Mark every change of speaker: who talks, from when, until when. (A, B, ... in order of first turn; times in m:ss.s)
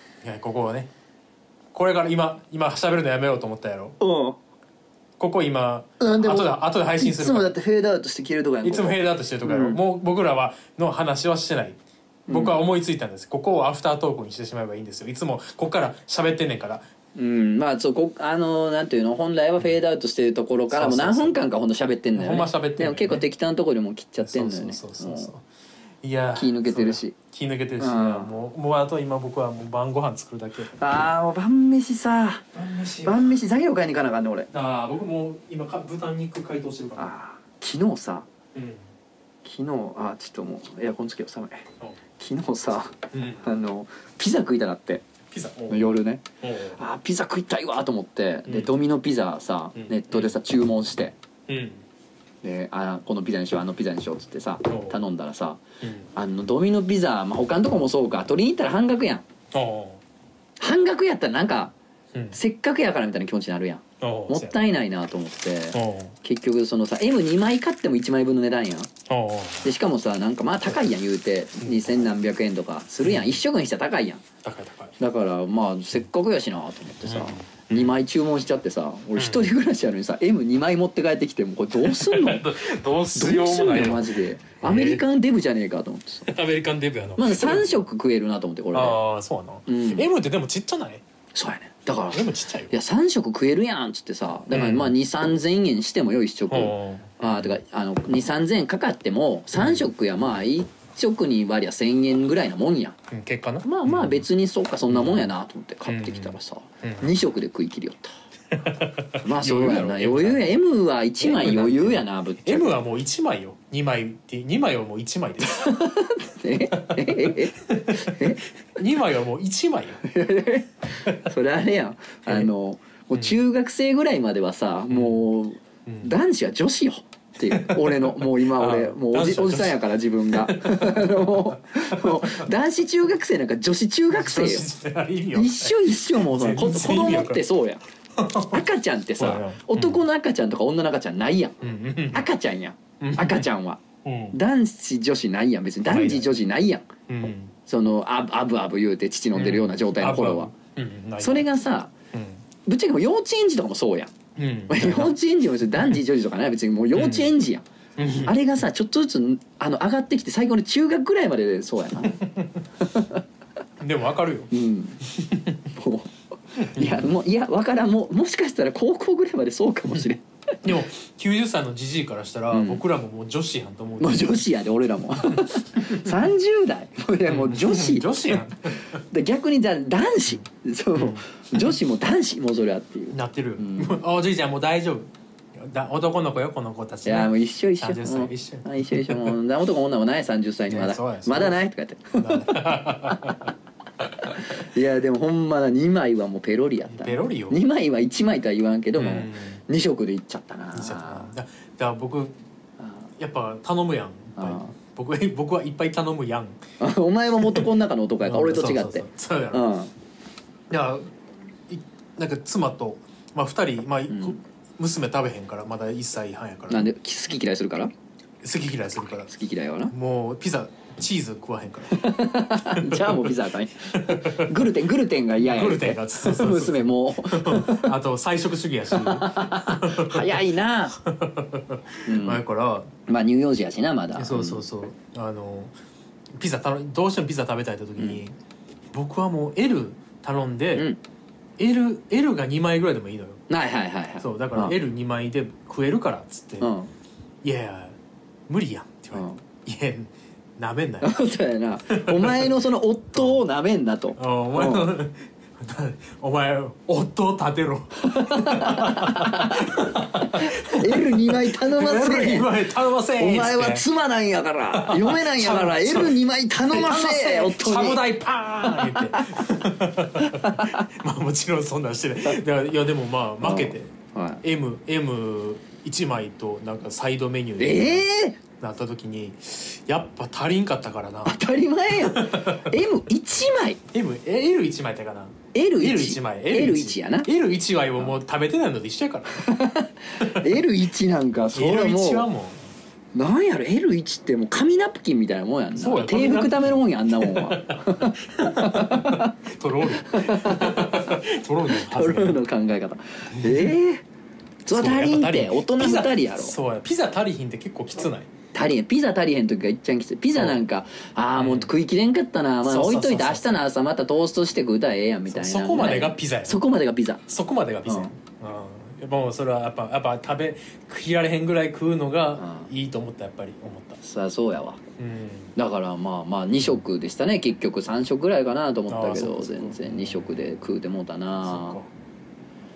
0:00.2-0:00.9 A
0:01.7-0:04.0 A
0:04.0-0:04.4 B
0:05.2-0:07.5 A
0:06.0-0:09.8 B
0:08.6-0:16.8 A
0:12.3-0:12.5 B
0:17.2-0:25.3 B
0:20.7-0:21.3 A
0:22.1-0:23.2 A
0:24.2-0:25.4 A
0:26.0-0:30.7 A
0:26.3-0:27.2 B
0:27.8-0:28.3 B
0:30.8-0:32.4 B
0:32.5-0:33.4 A
0:33.0-0:34.5 B
0:34.5-0:37.1 A
0:37.0-0:38.3 B
0:38.5-0:38.8 A
0:39.4-0:41.7 B
0:42.2-0:45.1 B
0:43.1-0:43.4 A
0:45.3-0:46.8 A
0:45.7-0:51.2 B
0:48.5-0:48.7 A
0:49.8-0:50.3 A
0:51.5-0:51.8 A
0:52.4-0:55.6 B
0:54.6-0:55.0 A
0:55.8-0:56.1 A
0:56.1-0:59.2 B
0:59.5-1:00.0 A
1:00.6-1:01.7 B
1:02.3-1:08.9 B
1:04.0-1:04.6 A
1:05.7-1:06.1 A
1:09.1-1:09.7 A
1:09.6-1:14.2 B
1:11.6-1:11.9 A
1:13.0-1:13.4 A
1:14.4-1:14.9 A
1:15.0-1:22.5 B
1:17.0-1:18.0 A
1:19.2-1:19.5 A
1:21.8-1:25.0 A
1:23.1-1:26.3 B
1:26.2-1:27.7 A
1:27.2-1:29.0 B
1:28.7-1:31.0 A
1:29.7-1:30.1 B
1:31.3-1:43.0 B
1:32.1-1:32.7 A
1:34.5-1:34.9 A
1:36.5-1:37.5 A
1:39.6-1:39.8 A
1:43.1-1:44.2 A
1:43.6-1:48.1 B
1:44.9-1:45.3 A
1:45.8-1:47.1 A
1:48.5-1:50.6 A
1:49.2-1:52.8 B
1:51.2-1:55.7 A
1:55.4-1:58.4 B
1:56.8-2:00.0 A
2:00.0-2:14.7 B
2:04.9-2:05.2 A
2:07.5-2:12.5 A
2:14.1-2:17.4 A
2:15.3-2:17.8 B
2:18.2-2:18.6 A
2:18.4-2:21.6 B
2:19.2-2:20.0 A
2:21.6-2:22.2 A
2:22.1-2:26.9 B
2:23.0-2:23.5 A
2:24.0-2:24.4 A
2:25.8-2:26.3 A
2:27.1-2:27.5 A
2:27.6-2:30.5 B
2:29.3-2:31.4 A
2:31.2-2:31.9 B
2:32.1-2:32.4 A
2:32.6-2:34.1 B
2:34.4-2:35.1 A
2:34.7-2:37.6 B
2:36.9-2:37.3 A
2:38.0-2:38.3 A
2:38.2-2:42.2 B
2:42.1-2:42.6 A
2:42.8-2:43.2 B
2:43.8-2:44.5 A
2:44.5-2:45.0 B
2:45.0-2:45.6 A
2:45.7-2:50.2 B
2:46.7-2:47.1 A
2:50.6-2:54.4 A
2:52.5-2:52.8 B
2:54.0-3:04.0 B
2:55.3-2:56.0 A
2:57.3-2:59.0 A
3:00.9-3:01.6 A
3:03.1-3:09.4 A
3:07.0-3:13.5 B
3:10.7-3:11.6 A
3:12.2-3:13.5 A
3:14.2-3:21.3 B
3:16.8-3:17.6 A
3:19.0-3:19.6 A
3:20.7-3:22.4 A
3:22.8-3:23.1 B
3:23.2-3:26.6 A
3:24.4-3:24.7 B
3:26.8-3:29.9 B
3:27.4-3:29.6 A
3:30.7-3:31.1 A
3:31.7-3:36.9 A
3:34.1-3:34.4 B
3:36.7-3:37.9 B
3:38.4-3:39.3 A
3:39.2-3:39.9 B
3:39.9-3:43.3 A
3:41.9-3:47.9 B
3:43.9-3:44.7 A
3:45.4-3:50.4 A
3:48.9-3:51.0 B
3:51.0-3:52.9 A
3:52.0-3:52.4 B
3:53.1-3:54.6 B
3:54.2-3:55.7 A
3:56.4-3:58.4 A
3:58.9-4:00.9 A
4:00.7-4:01.0 B
4:01.6-4:03.4 A
4:03.5-4:04.8 B
4:04.2-4:06.7 A
4:06.6-4:06.9 B
4:07.4-4:08.0 A
4:08.5-4:11.1 A
4:09.1-4:09.4 B
4:11.0-4:14.9 B
4:11.9-4:12.5 A
4:13.1-4:13.4 A
4:14.2-4:23.8 A
4:18.0-4:22.6 B
4:23.2-4:28.0 B
4:24.7-4:33.9 A
4:28.6-4:29.4 B
4:30.2-4:30.9 B
4:33.4-4:34.4 B
4:34.4-4:38.0 A
4:37.6-4:38.4 B
4:38.6-4:41.3 A
4:41.2-4:43.8 B
4:41.9-4:42.7 A
4:43.9-4:49.4 A
4:45.5-4:47.3 B
4:49.4-4:52.3 B
4:50.2-4:50.6 A
4:51.5-4:52.7 A
4:53.1-4:59.3 B
4:55.8-5:02.4 A
4:59.9-5:04.0 B
5:03.3-5:03.7 A
5:04.6-5:06.6 B
5:04.7-5:08.3 A
5:08.5-5:17.2 B
5:10.3-5:10.6 A
5:11.4-5:11.7 A
5:12.6-5:13.6 A
5:15.3-5:16.6 A
5:17.3-5:24.0 A
5:17.8-5:18.1 B
5:22.4-5:22.7 B
5:24.0-5:24.8 B
5:25.0-5:25.5 A
5:25.6-5:31.8 B
5:28.9-5:30.4 A
5:31.4-5:31.9 A